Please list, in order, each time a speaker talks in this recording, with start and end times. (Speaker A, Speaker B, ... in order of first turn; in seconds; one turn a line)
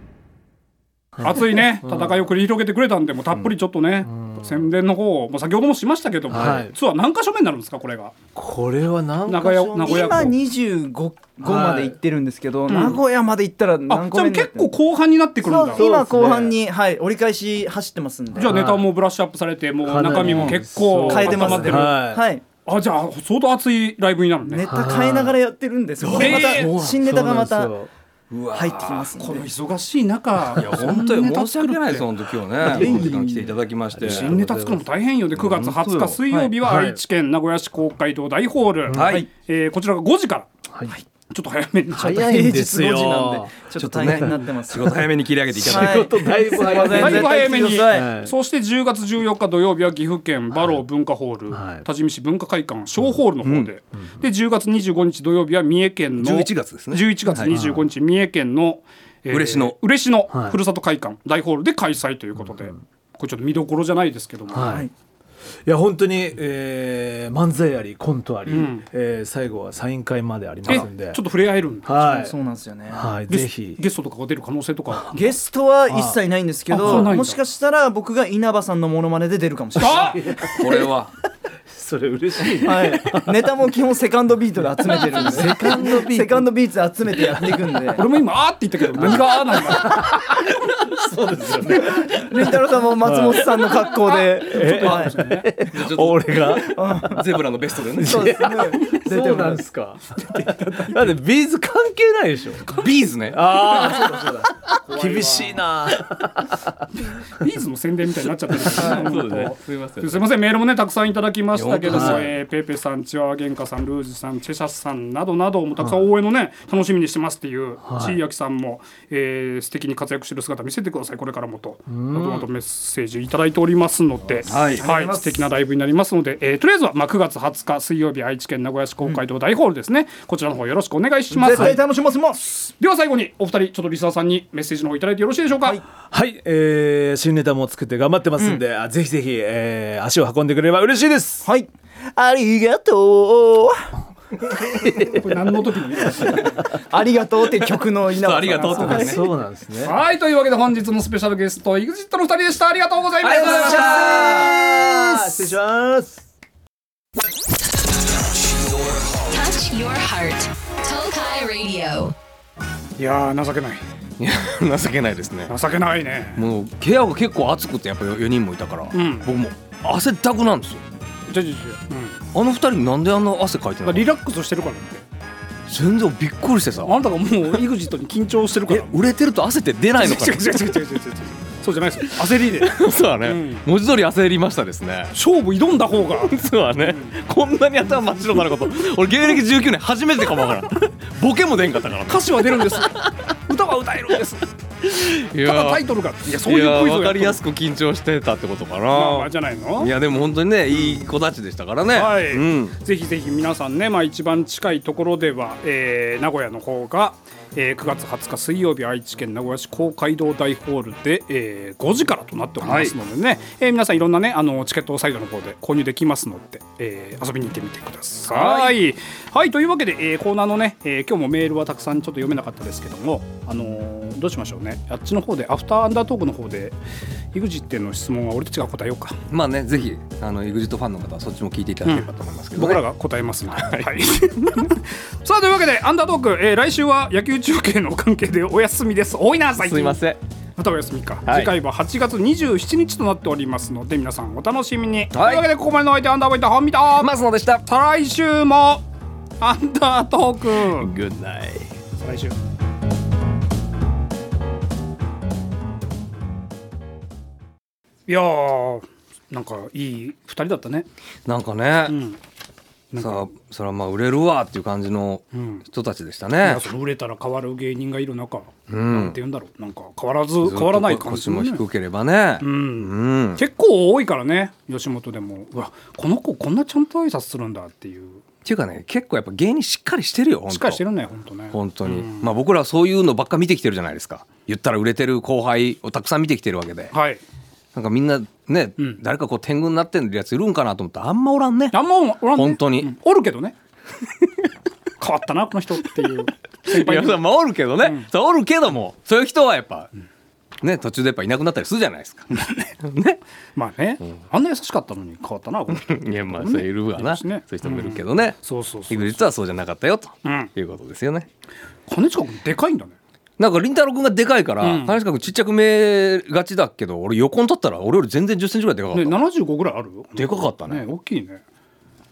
Speaker A: 1.2-2.1
Speaker B: 1.2-8.1
Speaker A: 4.2-4.5
Speaker A: 6.3-6.7
Speaker A: 8.3-10.4
Speaker B: 9.3-10.3
Speaker C: 9.8-14.7
Speaker A: 11.4-12.0
Speaker B: 12.7-13.0
Speaker B: 13.9-15.9
Speaker C: 15.4-18.6
Speaker A: 15.7-16.6
Speaker B: 18.3-22.0
Speaker A: 18.4-18.9
Speaker A: 19.8-22.2
Speaker C: 20.2-22.4
Speaker B: 22.6-24.6
Speaker C: 24.5-27.7
Speaker A: 24.6-25.4
Speaker D: 26.0-27.0
Speaker B: 26.1-26.7
Speaker A: 26.8-27.9
Speaker D: 28.3-29.1
Speaker C: 28.5-29.4
Speaker B: 29.1-32.1
Speaker D: 30.5-34.4
Speaker A: 32.6-33.4
Speaker C: 32.6-33.5
Speaker A: 33.9-34.9
Speaker B: 34.0-40.5
Speaker D: 35.4-36.2
Speaker A: 36.6-37.0
Speaker A: 38.9-39.2
Speaker D: 38.9-39.3
Speaker C: 39.0-39.3
Speaker B: 41.3-42.3
Speaker A: 41.9-43.5
Speaker C: 42.0-45.0
Speaker D: 43.8-46.1
Speaker A: 44.0-44.4
Speaker A: 45.5-48.3
Speaker C: 45.6-48.1
Speaker B: 46.8-64.8
Speaker A: 51.5-51.8
Speaker D: 53.4-53.7
Speaker D: 56.2-57.5
Speaker A: 57.5-57.9
Speaker D: 59.3-59.7
Speaker A: 60.3-60.6
Speaker A: 64.5-64.9
Speaker C: 64.6-64.9
Speaker A: 65.7-71.2
Speaker B: 68.5-68.8
Speaker B: 70.7-72.2
Speaker A: 71.8-72.3
Speaker C: 72.0-73.1
Speaker A: 72.9-73.8
Speaker B: 73.3-75.3
Speaker C: 75.1-80.6
Speaker A: 75.9-76.2
Speaker A: 76.7-77.2
Speaker B: 76.7-77.4
Speaker B: 79.8-80.2
Speaker A: 79.8-80.9
Speaker D: 80.5-81.1
Speaker A: 81.7-83.5
Speaker C: 82.5-88.1
Speaker A: 84.8-86.5
Speaker A: 87.2-87.6
Speaker B: 87.9-90.2
Speaker A: 88.9-93.8
Speaker C: 91.7-95.1
Speaker B: 93.8-95.5
Speaker A: 94.4-97.1
Speaker D: 95.7-98.4
Speaker C: 96.6-97.3
Speaker A: 98.0-102.8
Speaker C: 98.0-99.6
Speaker D: 102.7-104.2
Speaker A: 103.3-106.9
Speaker B: 104.8-105.6
Speaker B: 107.1-131.8
Speaker D: 108.7-110.3
Speaker D: 111.5-112.3
Speaker A: 111.9-112.3
Speaker A: 117.8-118.2
Speaker A: 121.9-122.5
Speaker D: 124.5-124.8
Speaker C: 124.5-125.4
Speaker C: 131.3-132.6
Speaker A: 131.5-131.8
Speaker B: 132.5-135.8
Speaker A: 136.1-141.4
Speaker C: 141.4-143.8
Speaker A: 144.6-145.2
Speaker B: 145.1-146.7
Speaker C: 146.7-149.2
Speaker D: 148.1-149.2
Speaker B: 148.5-149.1
Speaker A: 148.8-149.9
Speaker B: 149.8-154.0
Speaker D: 153.2-154.6
Speaker A: 153.2-156.2
Speaker C: 154.7-155.5
Speaker E: 159.2-162.1
Speaker B: 163.0-163.8
Speaker D: 164.2-165.5
Speaker B: 165.5-166.4
Speaker D: 166.3-170.8
Speaker B: 168.9-169.3
Speaker B: 171.3-172.2
Speaker D: 172.3-174.1
Speaker B: 173.8-175.0
Speaker D: 175.7-177.0
Speaker B: 176.8-179.0
Speaker D: 178.7-180.8
Speaker B: 180.0-183.6
Speaker D: 182.0-185.1
Speaker B: 185.1-187.2
Speaker D: 186.3-192.9
Speaker B: 192.1-194.4
Speaker D: 194.8-202.8
Speaker B: 195.4-197.4
Speaker B: 198.9-199.9
Speaker B: 200.7-201.0
Speaker B: 201.9-226.8
Speaker D: 212.6-212.9
Speaker D: 218.3-218.7
Speaker B: 227.3-229.2
Speaker D: 229.3-232.8
Speaker B: 231.8-240.0
Speaker D: 233.5-233.9
Speaker D: 239.6-240.2
Speaker B: 240.6-248.8
Speaker D: 241.2-241.5
Speaker D: 245.1-245.5
Speaker D: 247.0-247.6
Speaker B: 249.4-250.9
Speaker D: 250.8-251.7
Speaker B: 252.0-252.3
Speaker B: 258.1-260.9
Speaker D: 261.2-261.9
Speaker B: 261.9-262.2
Speaker B: 262.9-263.3
Speaker D: 263.0-266.6
Speaker B: 265.3-265.6
Speaker B: 266.4-271.6
Speaker D: 268.7-269.2
Speaker D: 270.4-273.4
Speaker B: 272.4-278.2
Speaker D: 278.4-280.8
Speaker B: 280.5-282.3
Speaker D: 281.5-286.9
Speaker B: 286.9-287.2
Speaker D: 287.7-291.8
Speaker B: 291.7-293.6
Speaker D: 292.3-292.9
Speaker B: 295.0-297.2
Speaker D: 296.7-299.9
Speaker B: 297.8-298.1
Speaker D: 300.6-302.3
Speaker B: 302.3-302.8
Speaker D: 302.8-303.2
Speaker B: 303.6-309.3
Speaker D: 305.7-311.3
Speaker B: 310.2-310.5
Speaker B: 311.9-312.9
Speaker D: 313.4-319.2
Speaker B: 314.6-315.0
Speaker B: 318.9-321.4
Speaker D: 320.1-320.8